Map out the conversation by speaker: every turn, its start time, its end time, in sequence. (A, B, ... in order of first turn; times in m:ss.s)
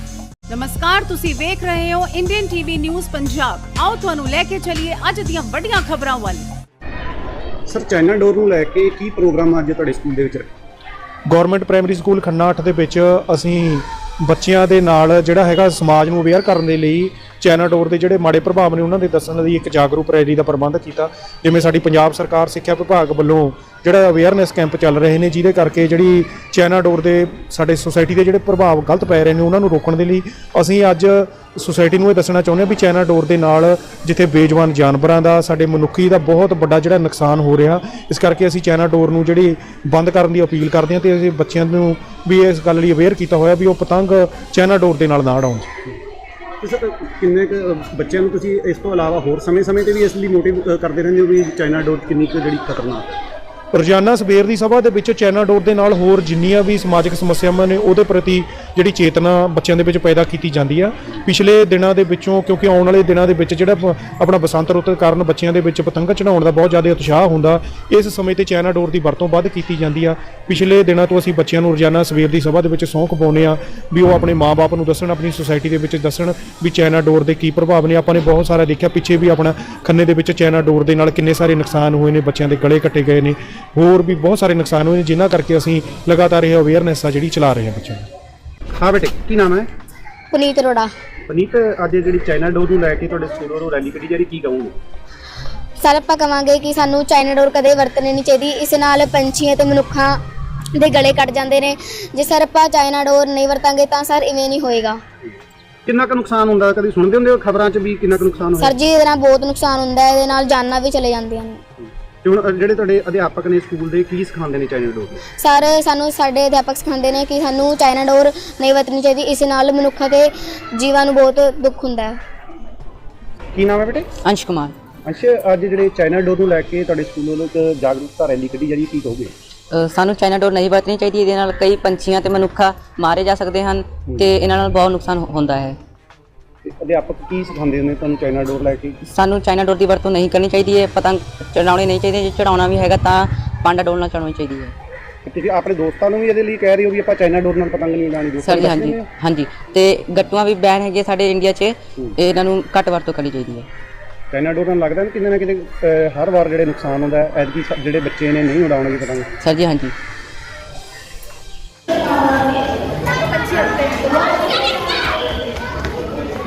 0:00.5-0:06.5 A
0:07.7-0:10.5 B
0:11.3-0:45.7 C
0:46.6-0:53.2 B
0:53.7-1:28.1 C
1:28.7-1:29.7 B
1:30.3-1:30.9 D
1:31.3-1:34.7 B
1:35.8-1:40.2 D
1:40.7-1:45.0 D
1:45.8-1:48.8 B
1:48.6-1:51.6 D
1:52.2-1:55.2 B
1:55.4-2:02.2 D
2:03.5-2:04.1 B
2:04.2-2:04.7 E
2:05.0-2:09.3 B
2:09.7-2:15.8 E
2:16.6-2:19.0 B
2:19.1-2:24.7 E
2:25.2-2:29.1 B
2:28.4-2:33.7 E
2:34.3-2:39.3 B
2:39.4-2:39.9 E